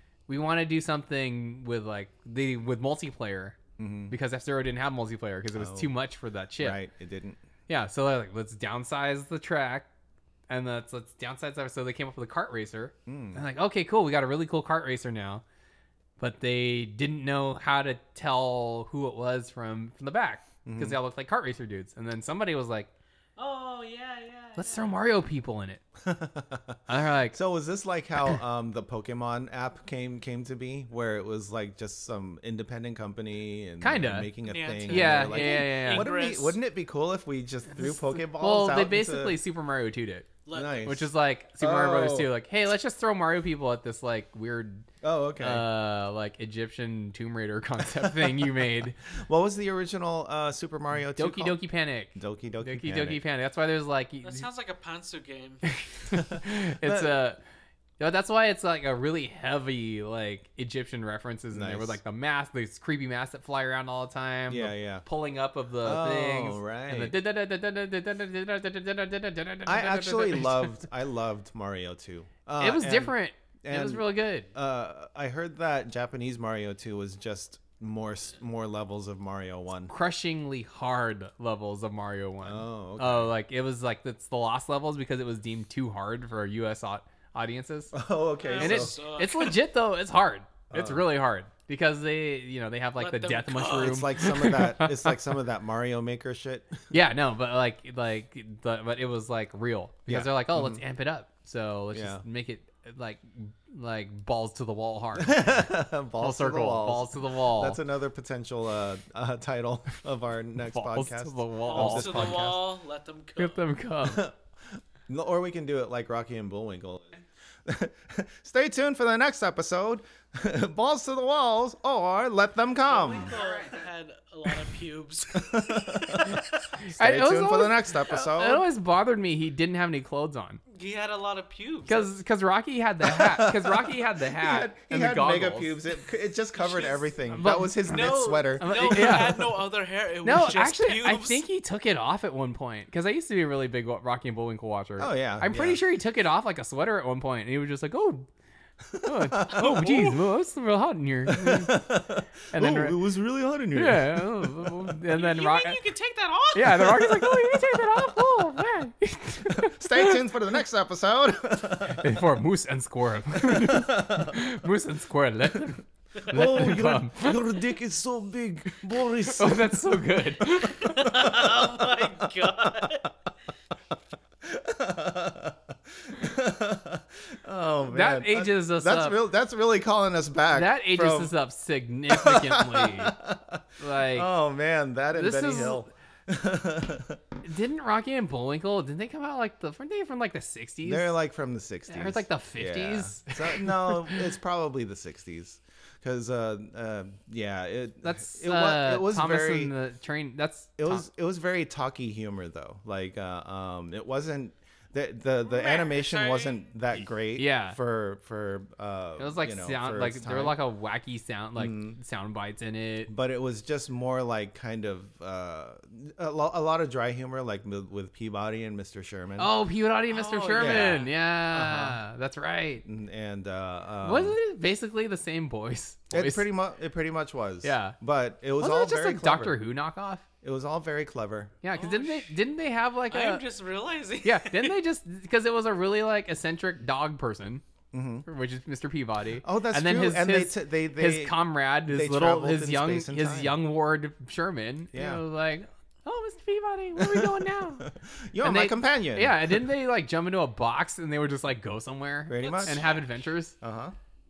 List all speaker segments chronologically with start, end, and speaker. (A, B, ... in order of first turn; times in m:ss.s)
0:00.3-0:03.6 A
0:03.8-0:04.2 B
0:04.1-0:06.8 A
0:05.5-0:05.9 B
0:06.6-0:07.4 B
0:07.7-0:09.9 A
0:10.5-0:15.4 A
0:13.1-0:13.4 B
0:16.2-0:22.9 A
0:20.6-0:21.0 B
0:23.4-0:24.9 C
0:24.6-0:25.8 A
0:26.0-0:39.4 B
0:26.9-0:27.4 A
0:33.8-0:34.3 A
0:34.5-0:36.6 C
0:34.9-0:36.1 A
0:38.4-0:40.3 A
0:40.5-0:41.0 C
0:40.5-0:41.0 B
0:40.8-0:44.9 A
0:41.6-0:42.3 B
0:45.0-0:45.6 B
0:45.4-0:49.0 A
0:47.8-0:48.5 B
0:49.1-0:51.6 B
0:51.2-0:54.5 A
0:52.2-0:53.2 B
0:54.2-0:55.7 C
0:55.7-0:57.4 A
0:56.1-0:57.2 B
0:58.0-1:10.8 A
1:01.5-1:02.0 B
1:04.5-1:05.0 B
1:05.8-1:07.2 B
1:09.7-1:13.1 B
1:12.6-1:14.5 A
1:13.6-1:19.9 B
1:19.9-1:28.0 A
1:22.4-1:23.3 B
1:27.9-1:28.9 B
1:28.4-1:29.6 C
1:28.6-1:35.2 A
1:30.7-1:31.1 B
1:33.0-1:34.2 C
1:33.6-1:36.9 B
1:36.9-1:45.7 A
1:40.1-1:40.8 B
1:41.9-1:42.2 B
1:45.2-1:52.6 B
1:46.2-1:47.8 A
1:50.7-1:52.6 A
1:51.6-1:53.6 C
1:53.4-1:54.3 A
1:54.0-2:03.4 B
2:02.9-2:06.7 C
2:03.0-2:03.8 A
2:05.4-2:06.4 B
2:06.9-2:10.6 A
2:07.0-2:08.6 B
2:10.7-2:12.1 C
2:11.9-2:15.8 A
2:13.0-2:19.4 B
2:16.6-2:17.0 C
2:17.3-2:17.8 A
2:17.8-2:21.4 C
2:18.6-2:19.5 A
2:20.2-2:28.3 A
2:25.0-2:25.8 B
2:28.9-2:30.2 B
2:29.0-2:31.8 A
2:31.3-2:35.0 B
2:32.5-2:33.0 A
2:33.8-2:35.8 A
2:35.1-2:37.2 C
2:36.5-2:40.3 A
2:39.5-2:42.2 B
2:41.9-2:47.5 A
2:43.4-2:44.4 B
2:46.3-2:50.4 B
2:49.2-2:51.0 A
2:50.6-2:53.1 C
2:51.0-2:52.8 B
2:54.4-3:01.3 B
2:57.9-2:59.2 A
3:00.5-3:03.2 A
3:02.1-3:07.2 B
3:03.8-3:04.3 A
3:05.1-3:05.9 A
3:07.4-3:11.1 A
3:10.8-3:19.7 B
3:11.9-3:14.2 A
3:18.0-3:21.0 A
3:20.8-3:30.6 B
3:25.4-3:26.7 C
3:27.4-3:27.8 A
3:29.2-3:33.1 A
3:31.6-3:32.0 B
3:33.1-3:39.5 B
3:39.4-3:42.8 A
3:40.1-3:41.1 C
3:40.6-3:42.0 B
3:42.8-3:44.4 B
3:44.0-3:46.4 A
3:46.1-3:49.6 B
3:47.6-3:48.0 A
3:48.6-3:50.2 A
3:50.4-3:51.5 B
3:51.6-3:53.4 A
3:51.8-3:52.4 C
3:53.1-3:54.8 C
3:54.2-3:57.6 A
3:57.9-3:58.3 B
3:58.2-4:07.9 A
3:59.4-4:03.6 B
4:04.9-4:05.2 B
4:07.0-4:09.6 B
4:08.4-4:13.6 A
4:12.3-4:12.8 B
4:12.4-4:13.2 C
4:13.6-4:14.0 B